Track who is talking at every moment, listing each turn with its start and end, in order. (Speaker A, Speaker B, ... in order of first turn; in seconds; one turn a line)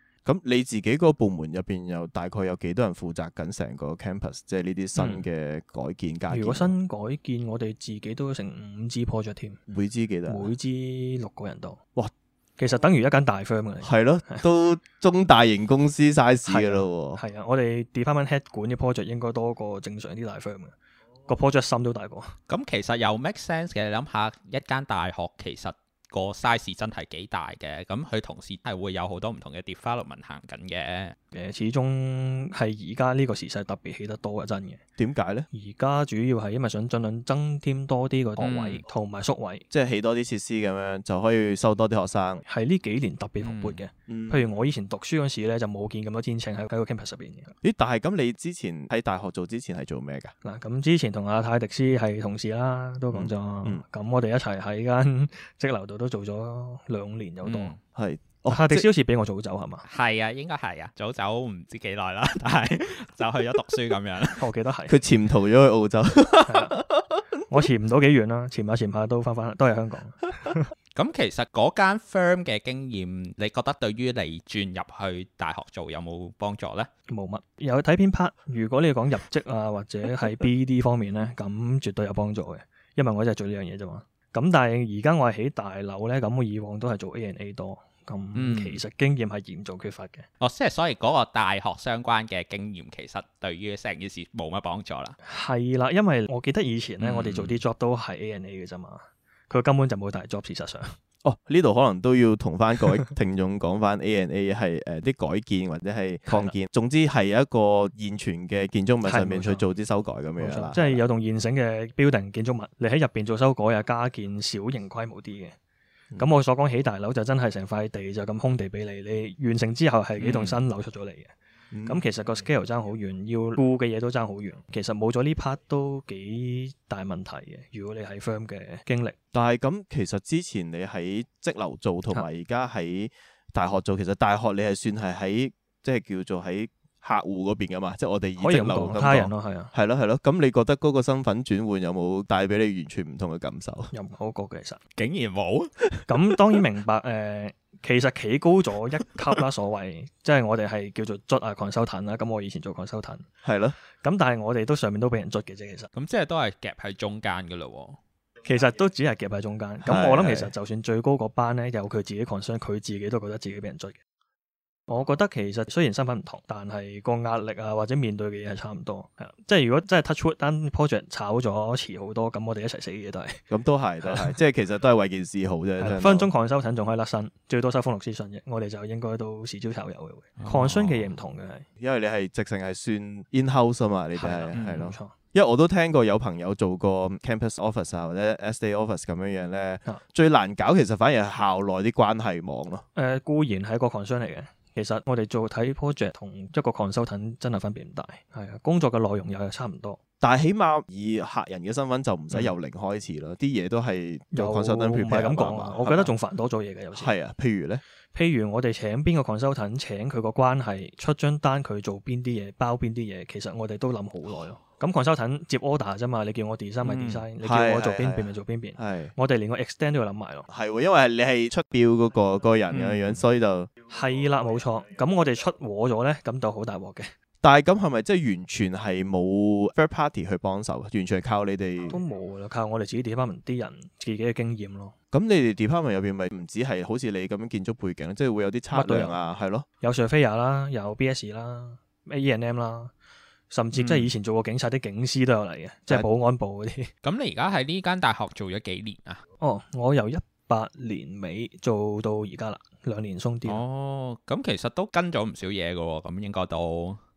Speaker A: 0.2-6.7
Speaker B: 5.0-5.2
Speaker C: 6.3-9.6
Speaker A: 9.7-10.5
Speaker C: 10.3-11.8
Speaker C: 12.6-14.4
Speaker A: 13.8-17.2
Speaker C: 16.5-20.7
Speaker C: 21.3-22.3
Speaker B: 22.5-31.1
Speaker C: 31.3-34.8
Speaker A: 35.0-35.5
Speaker C: 35.5-39.6
Speaker B: 38.4-38.8
Speaker A: 39.7-42.4
Speaker C: 42.5-47.5
Speaker B: 43.4-43.8
Speaker A: 44.1-44.6
Speaker A: 47.6-50.3
Speaker C: 50.4-57.7
Speaker A: 53.1-53.8
Speaker B: 57.4-57.8
Speaker A: 57.9-58.9
Speaker C: 58.5-59.8
Speaker B: 59.8-64.4
Speaker C: 64.4-65.0
Speaker A: 64.9-67.7
Speaker C: 66.4-66.8
Speaker C: 67.5-70.7
Speaker B: 70.9-76.9
Speaker C: 77.1-90.3
Speaker B: 88.3-88.8
Speaker B: 90.4-95.2
Speaker C: 95.2-100.9
Speaker B: 97.0-97.6
Speaker A: 101.2-111.0
Speaker C: 106.3-106.5
Speaker C: 109.0-109.6
Speaker C: 110.4-115.5
Speaker C: 116.2-121.3
Speaker B: 120.2-120.6
Speaker A: 121.7-122.0
Speaker C: 121.8-129.2
Speaker A: 129.3-143.9
Speaker C: 138.4-139.7
Speaker C: 143.9-144.8
Speaker B: 145.0-146.0
Speaker C: 146.1-153.2
Speaker A: 153.4-153.7
Speaker C: 154.0-155.9
Speaker B: 155.9-158.0
Speaker C: 158.4-164.0
Speaker A: 159.8-160.5
Speaker C: 164.9-173.4
Speaker A: 173.5-176.3
Speaker C: 174.0-174.3
Speaker C: 175.8-181.7
Speaker B: 180.4-181.1
Speaker A: 181.8-192.8
Speaker C: 184.2-185.1
Speaker B: 184.5-184.8
Speaker C: 192.9-200.0
Speaker A: 200.2-206.1
Speaker C: 204.3-207.1
Speaker A: 206.9-207.8
Speaker C: 208.1-220.5
Speaker B: 216.8-217.2
Speaker A: 217.4-219.1
Speaker A: 220.5-223.7
Speaker B: 222.7-223.2
Speaker C: 223.9-227.1
Speaker A: 227.4-232.0
Speaker C: 231.9-234.9
Speaker A: 235.1-239.7
Speaker C: 238.7-239.2
Speaker C: 239.8-242.9
Speaker C: 243.5-246.9
Speaker B: 243.7-244.1
Speaker B: 247.0-249.2
Speaker C: 249.4-253.6
Speaker B: 253.4-257.0